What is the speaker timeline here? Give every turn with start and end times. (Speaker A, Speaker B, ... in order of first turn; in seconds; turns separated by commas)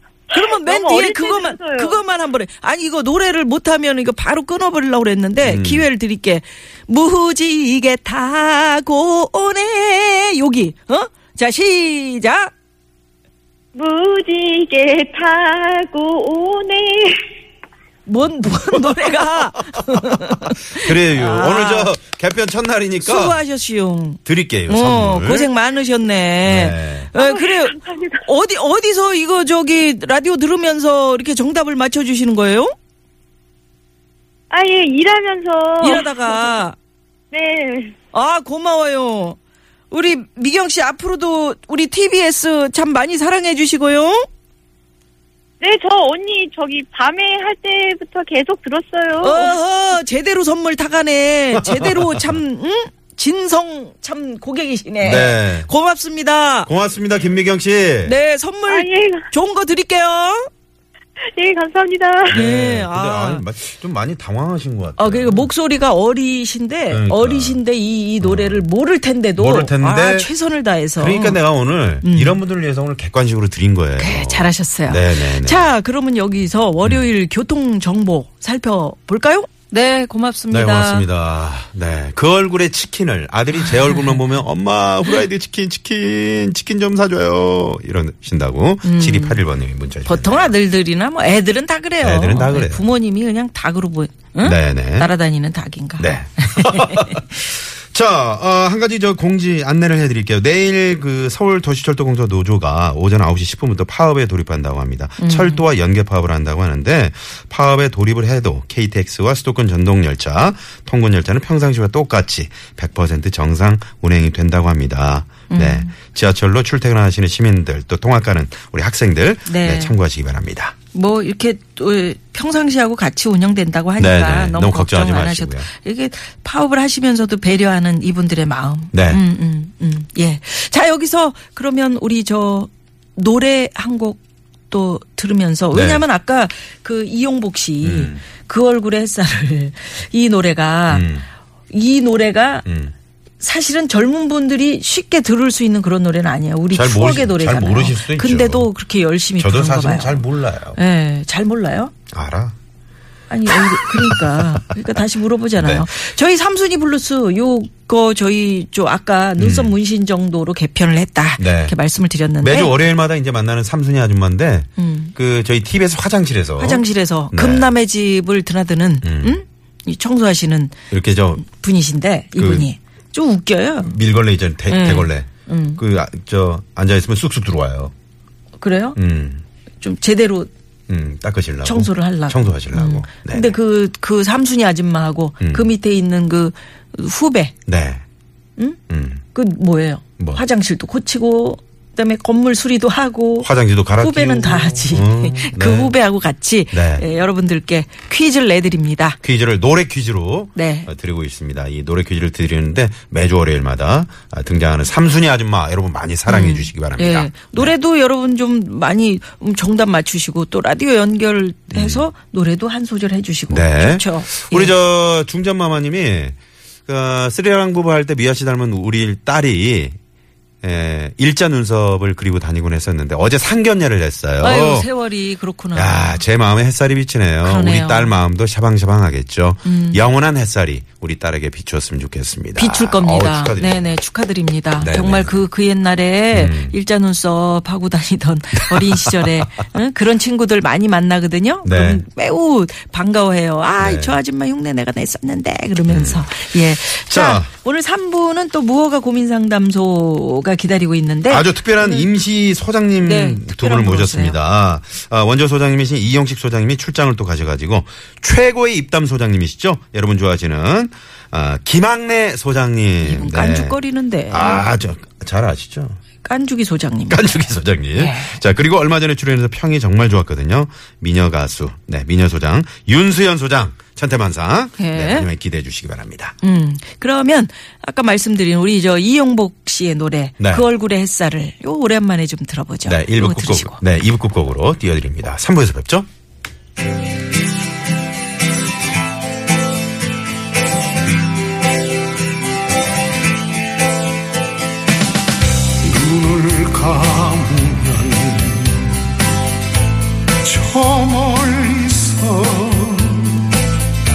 Speaker A: 0.3-2.0, Speaker B: 0.3-12.5, Speaker C: 5.4-5.9, Speaker A: 13.8-17.1, Speaker B: 18.1-21.9, Speaker C: 20.7-23.4, Speaker B: 23.0-32.7, Speaker C: 24.2-25.5, Speaker C: 26.4-27.1, Speaker A: 27.2-28.2, Speaker A: 34.5-36.6, Speaker B: 35.8-36.8, Speaker A: 37.3-38.0, Speaker B: 38.1-39.4, Speaker B: 39.9-44.2, Speaker A: 45.6-49.6, Speaker B: 49.2-56.7, Speaker C: 51.6-52.2, Speaker C: 55.0-55.7, Speaker C: 56.7-58.1, Speaker B: 58.0-60.5, Speaker A: 58.7-59.2, Speaker A: 61.3-62.4, Speaker C: 62.3-65.5, Speaker B: 62.3-63.4, Speaker B: 65.0-71.4, Speaker C: 66.9-67.6, Speaker C: 68.2-68.6, Speaker C: 69.4-70.3, Speaker C: 71.0-75.7, Speaker B: 72.0-72.4, Speaker B: 74.0-81.1, Speaker C: 80.5-90.5, Speaker B: 83.7-84.2, Speaker B: 88.8-89.4, Speaker B: 90.0-97.2, Speaker C: 92.0-92.9, Speaker C: 94.4-95.1, Speaker C: 96.0-120.7, Speaker B: 105.2-105.6, Speaker B: 115.5-115.9, Speaker B: 119.5-119.9, Speaker B: 120.9-141.1, Speaker C: 124.0-125.7, Speaker C: 128.9-129.2, Speaker C: 135.7-136.0, Speaker C: 137.8-138.2, Speaker C: 140.9-141.2, Speaker B: 141.7-142.7, Speaker C: 142.7-142.9, Speaker B: 143.4-151.9, Speaker C: 146.7-148.7, Speaker C: 149.4-150.8, Speaker C: 152.1-152.5, Speaker B: 153.3-162.8, Speaker C: 155.6-155.9, Speaker C: 159.4-159.8, Speaker C: 161.4-161.7, Speaker C: 162.4-167.7, Speaker B: 164.8-165.1, Speaker B: 166.6-170.8, Speaker C: 169.0-169.4, Speaker C: 170.9-171.4, Speaker B: 171.4-173.9, Speaker C: 172.4-172.7, Speaker C: 173.8-177.9, Speaker B: 174.7-175.8, Speaker B: 178.6-179.0, Speaker C: 179.0-179.4, Speaker B: 179.8-180.5, Speaker C: 180.9-183.6, Speaker B: 181.6-187.5, Speaker C: 185.4-185.7, Speaker C: 187.7-188.0, Speaker C: 188.9-189.2, Speaker B: 189.3-193.5, Speaker C: 193.4-195.9, Speaker B: 194.0-199.2, Speaker C: 196.7-197.1, Speaker C: 199.2-207.7, Speaker B: 200.5-200.9, Speaker B: 206.3-214.8, Speaker C: 211.7-212.1, Speaker C: 213.5-220.0, Speaker C: 220.6-224.9, Speaker B: 224.4-226.2, Speaker C: 225.8-233.9, Speaker B: 227.4-228.2, Speaker B: 229.7-230.0, Speaker B: 232.6-252.1, Speaker C: 234.8-235.4, Speaker C: 236.3-236.8, Speaker C: 238.7-239.4, Speaker C: 241.6-242.0, Speaker C: 243.8-244.2, Speaker C: 245.9-246.4, Speaker C: 246.9-247.5, Speaker C: 251.3-263.8, Speaker B: 253.0-254.4, Speaker B: 263.0-264.7, Speaker C: 264.3-266.0, Speaker B: 266.2-267.3, Speaker C: 267.1-276.4, Speaker B: 268.0-268.4, Speaker B: 274.8-275.3, Speaker B: 276.4-283.8, Speaker C: 280.4-280.6, Speaker C: 282.9-286.1, Speaker D: 295.8-299.0, Speaker D: 300.4-303.4